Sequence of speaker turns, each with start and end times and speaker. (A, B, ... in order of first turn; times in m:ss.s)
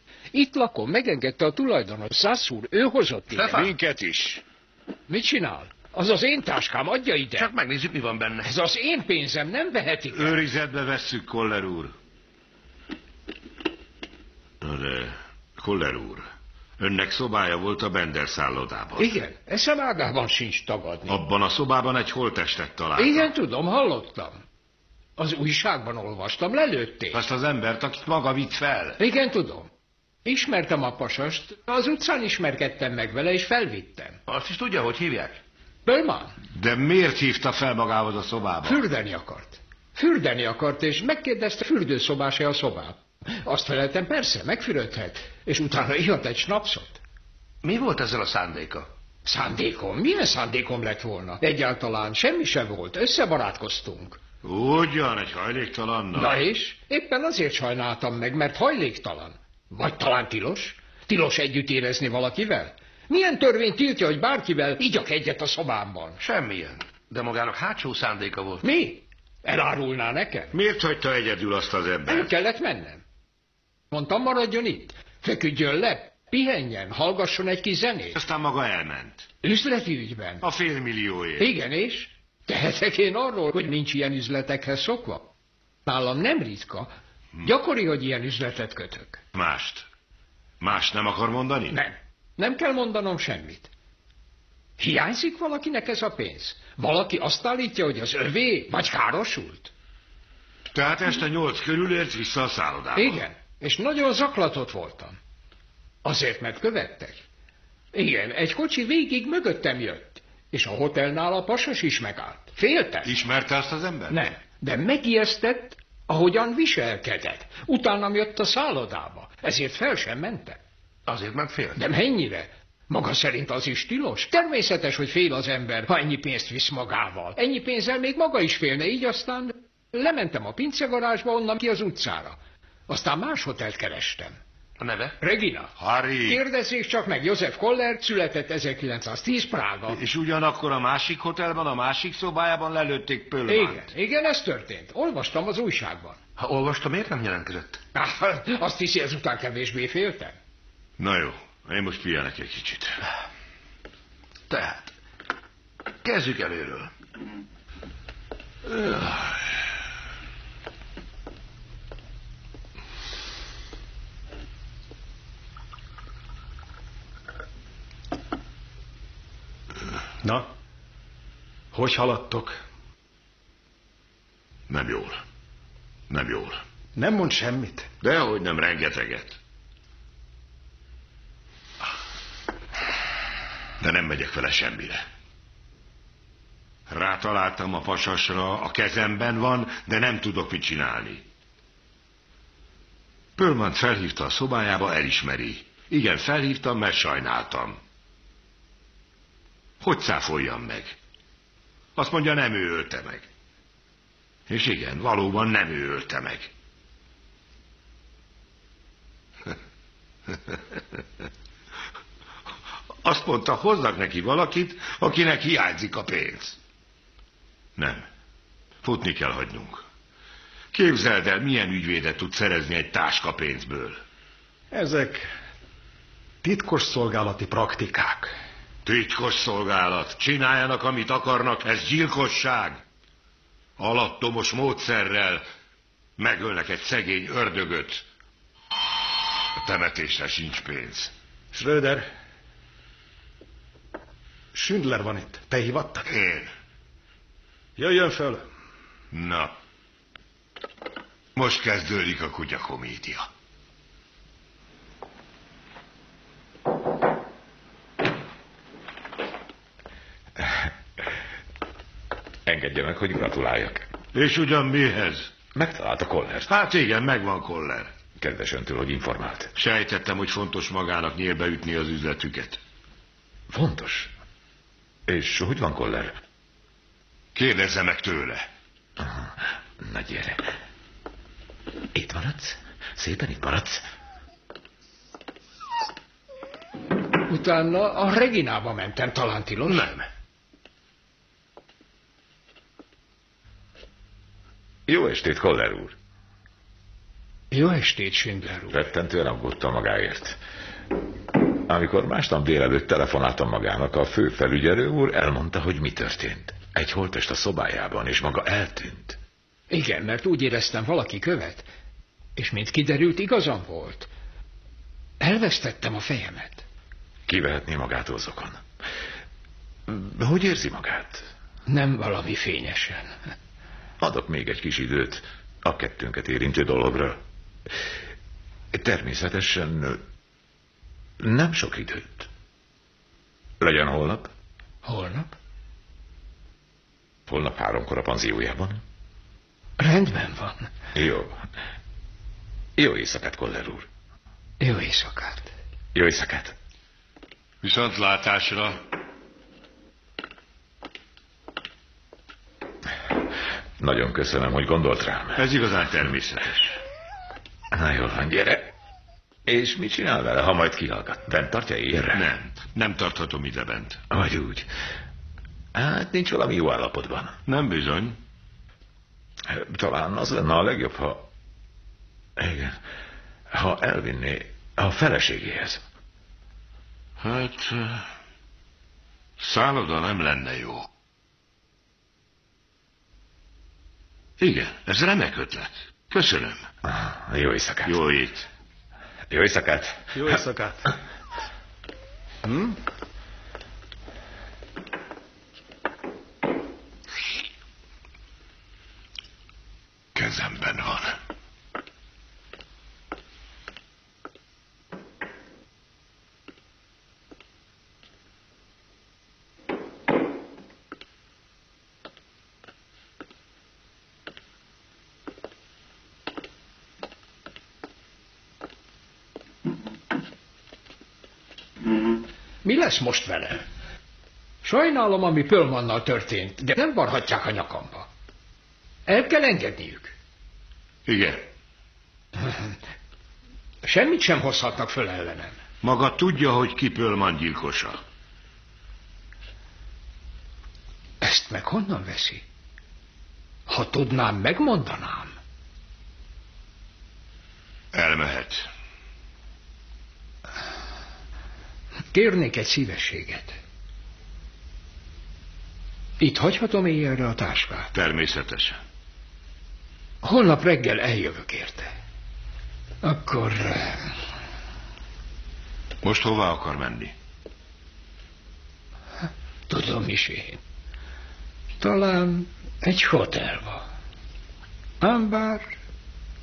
0:00.3-0:03.6 A
0:03.3-0:03.7 B
0:03.5-0:04.4 C
0:05.1-0:07.5 A
0:07.3-0:08.5 B
0:08.4-0:10.4 A
0:10.2-0:11.9 C
0:14.6-0:16.3 C
0:16.8-0:19.2 C
0:19.0-0:21.2 A
0:21.1-0:23.3 C
0:23.0-0:24.4 A
0:25.2-0:27.2 A
0:27.1-0:29.0 C
0:29.0-0:29.7 A
0:30.2-0:34.2 A
0:34.3-0:35.4 B
0:35.9-0:36.3 A
0:36.6-0:38.8 C
0:38.6-0:47.0 A
0:47.6-0:48.9 B
0:49.3-0:54.2 A
0:54.4-0:56.4 C
0:56.2-1:06.2 A
1:06.2-1:08.6 B
1:08.6-1:10.5 A
1:10.5-1:12.3 C
1:12.1-1:13.0 A
1:13.9-1:18.2 A
1:18.1-1:19.3 C
1:19.4-1:20.4 A
1:20.4-1:21.5 C
1:21.4-1:25.3 A
1:25.9-1:26.9 A
1:27.4-1:29.2 A
1:29.3-1:29.9 C
1:30.6-1:31.8 C
1:31.7-1:33.7 A
1:34.8-1:39.7 A
1:40.7-1:43.2 C
1:43.0-1:45.2 A
1:46.0-1:47.2 A
1:47.9-1:53.1 A
1:53.0-1:54.2 C
1:54.1-2:00.6 A
2:01.1-2:01.8 B
2:01.8-2:12.4 A
2:12.9-2:14.4 A
2:14.8-2:15.2 B
2:15.2-2:15.7 A
2:15.8-2:16.4 C
2:16.2-2:20.0 A
2:19.9-2:23.9 C
2:23.5-2:26.2 A
2:26.4-2:27.8 B
2:28.0-2:30.4 A
2:31.0-2:33.0 C
2:34.5-2:34.8 B
2:36.0-2:36.9 B
2:38.8-2:39.3 C
2:50.2-2:50.5 D
2:51.7-2:52.6 D
2:54.7-2:55.2 C
2:56.1-2:56.6 C
2:57.0-2:57.9 D
2:58.0-2:59.4 C
3:03.8-3:05.0 C
3:06.9-3:11.2 C
3:13.4-3:17.8 C
3:19.8-3:21.0 C
3:22.0-3:23.3 C
3:24.5-3:26.5 C
3:33.0-3:36.6 C
3:37.8-3:38.0 C
3:38.8-3:39.8 C
3:40.7-3:44.0 C
3:44.7-3:45.3 D
3:46.4-3:48.3 D
3:48.8-3:52.8 C
3:53.8-3:55.4 C
3:56.2-3:58.0 C
3:59.6-4:01.1 C
4:01.5-4:02.1 D
4:04.5-4:06.1 D
4:06.1-4:06.5 C
4:07.8-4:08.5 D
4:09.1-4:09.5 C
4:11.4-4:13.3 C
4:22.5-4:23.9 E
4:24.1-4:25.3 C
4:25.5-4:26.5 E
4:26.5-4:27.9 C
4:28.2-4:29.5 E
4:29.6-4:32.6 C
4:33.5-4:34.1 E
4:35.1-4:36.2 E
4:37.4-4:38.4 C
4:39.0-4:39.3 E
4:39.8-4:40.4 E
4:41.9-4:43.8 E
4:47.3-4:49.9 A
4:49.7-4:50.0 B
4:54.9-4:56.0 E
4:57.5-4:58.8 A
4:58.7-5:00.4 E
5:01.7-5:09.2 E
5:09.7-5:11.7 A
5:12.4-5:14.1 A
5:15.2-5:16.6 A
5:17.3-5:18.6 E
5:19.9-5:21.3 E
5:21.7-5:23.2 A
5:24.0-5:27.2 E
5:28.7-5:30.0 E
5:31.2-5:32.3 E
5:33.6-5:34.3 E
5:34.8-5:35.3 A
5:37.3-5:38.8 E
5:39.8-5:40.7 A
5:40.9-5:41.4 E
5:42.8-5:43.9 E
5:44.6-5:45.5 A
5:45.9-5:46.6 E
5:47.6-5:48.8 C
5:53.8-5:55.5 E
5:55.4-5:56.8 C
5:57.7-5:58.7 E
5:59.5-6:02.3 E
6:02.1-6:04.0 C
6:04.1-6:04.7 E
6:05.7-6:07.4 E
6:07.5-6:08.2 C
6:09.5-6:11.3 E
6:12.4-6:12.8 E
6:13.5-6:15.8 E
6:17.2-6:18.1 C
6:19.4-6:20.9 C
6:24.4-6:26.7 C
6:26.8-6:28.0 E
6:27.9-6:28.5 C
6:29.3-6:30.4 E
6:30.1-6:30.8 D
6:32.5-6:32.7 D
6:40.2-6:41.2 C
7:02.6-7:03.6 A
7:04.6-7:08.1 A
7:09.1-7:10.1 A
7:11.1-7:11.4 C
7:12.4-7:12.7 A
7:13.8-7:15.6 A
7:15.8-7:18.0 C
7:21.2-7:22.4 A
7:23.7-7:25.4 A
7:27.9-7:28.7 C
7:32.1-7:33.6 A
7:36.2-7:37.9 A
7:37.9-7:38.8 C
7:40.2-7:41.9 A
7:43.0-7:44.1 A
7:46.0-7:47.1 C
7:49.7-7:50.6 A
7:51.8-7:53.8 A
7:55.0-7:55.7 A